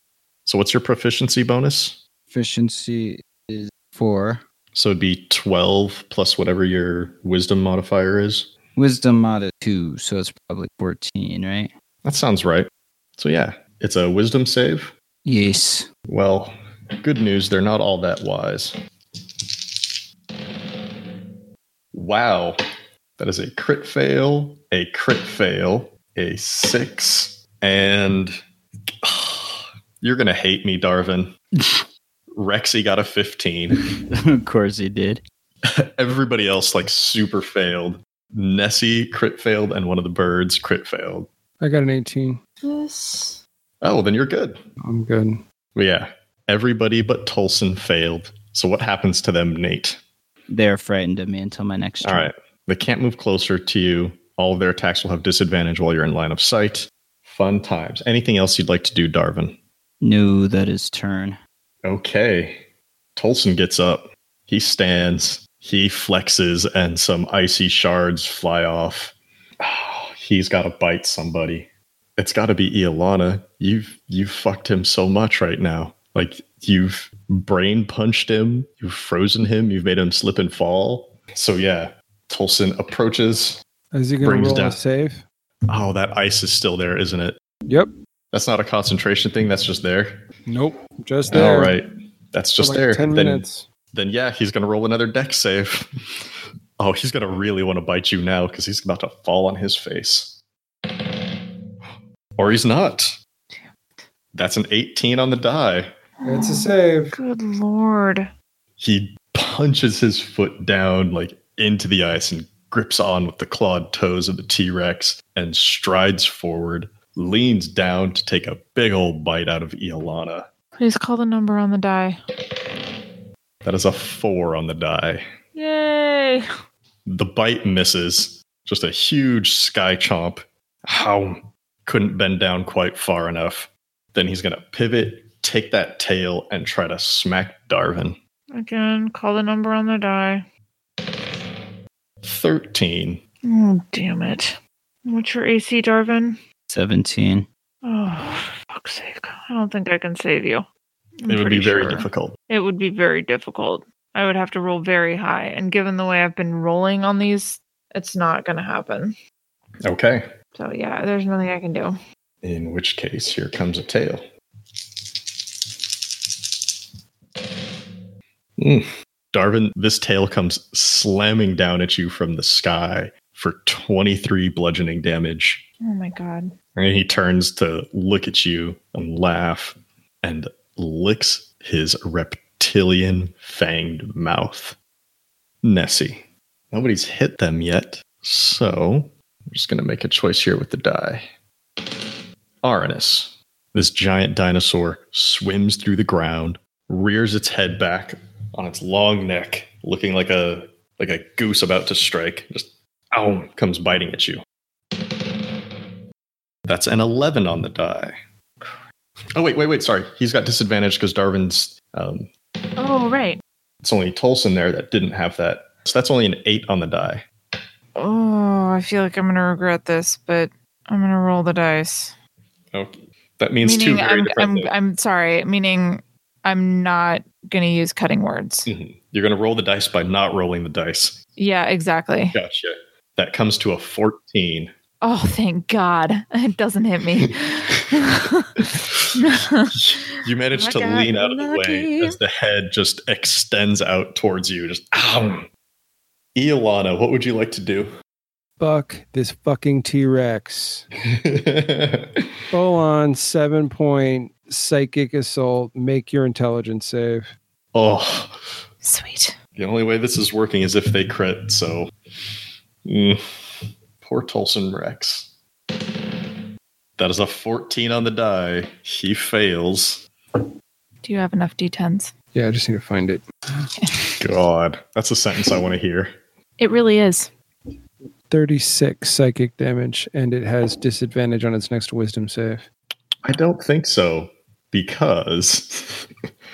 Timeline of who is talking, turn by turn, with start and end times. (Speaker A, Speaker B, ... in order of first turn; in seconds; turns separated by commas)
Speaker A: 0.5-2.0, Speaker B: 2.3-4.4, Speaker A: 4.7-8.5, Speaker B: 8.8-11.7, Speaker A: 12.0-14.9, Speaker B: 15.2-15.9, Speaker A: 16.1-18.7, Speaker A: 21.9-22.6, Speaker A: 23.2-28.4, Speaker A: 29.0-31.4, Speaker A: 32.3-33.8, Speaker B: 34.1-35.2, Speaker A: 35.7-41.3, Speaker C: 41.6-42.4, Speaker D: 42.6-43.4, Speaker A: 43.8-44.6, Speaker C: 44.8-45.4, Speaker A: 45.7-50.0, Speaker B: 50.5-52.3, Speaker A: 52.0-59.6, Speaker B: 60.0-61.4, Speaker A: 61.8-62.6, Speaker A: 63.1-83.6, Speaker C: 83.9-85.2, Speaker A: 84.2-84.8, Speaker A: 85.7-87.4, Speaker A: 88.3-90.2, Speaker C: 90.5-91.8, Speaker A: 91.3-96.2, Speaker C: 92.6-93.7, Speaker A: 96.8-100.4, Speaker A: 102.4-103.2, Speaker D: 103.5-104.0, Speaker A: 104.3-105.9, Speaker D: 106.2-108.3, Speaker C: 106.2-107.2, Speaker A: 108.8-120.5, Speaker D: 120.8-122.2, Speaker A: 123.6-125.2, Speaker D: 125.5-126.4, Speaker A: 127.0-138.2, Speaker D: 138.5-140.4, Speaker A: 142.2-143.2, Speaker D: 143.4-146.4, Speaker B: 146.7-147.4, Speaker D: 147.8-150.7, Speaker D: 151.2-159.2, Speaker A: 151.3-152.3, Speaker A: 159.8-160.2, Speaker D: 160.5-161.9, Speaker A: 162.4-164.2, Speaker A: 166.3-166.6, Speaker A: 167.4-167.7, Speaker A: 168.6-175.6, Speaker D: 175.8-176.5, Speaker A: 176.7-184.8, Speaker A: 185.6-191.2, Speaker A: 191.8-204.4, Speaker A: 205.0-205.3, Speaker A: 206.7-208.7, Speaker A: 209.3-212.3, Speaker D: 212.8-213.4, Speaker A: 213.8-217.2, Speaker D: 217.9-222.1, Speaker A: 222.7-224.7, Speaker D: 223.6-228.7, Speaker A: 228.7-231.2, Speaker D: 231.4-232.4, Speaker A: 232.3-234.7, Speaker D: 235.0-242.2, Speaker A: 238.7-245.5, Speaker A: 246.3-247.9, Speaker C: 248.6-250.9, Speaker A: 251.1-252.3, Speaker C: 252.5-257.3, Speaker A: 257.7-258.6, Speaker D: 258.8-259.4, Speaker A: 259.6-261.9, Speaker A: 262.8-263.2, Speaker A: 264.0-265.3, Speaker A: 267.0-270.0, Speaker D: 271.0-272.1, Speaker C: 272.3-273.7, Speaker D: 273.8-274.2, Speaker A: 274.2-276.1, Speaker D: 276.6-277.3, Speaker C: 278.3-282.7, Speaker A: 283.2-286.1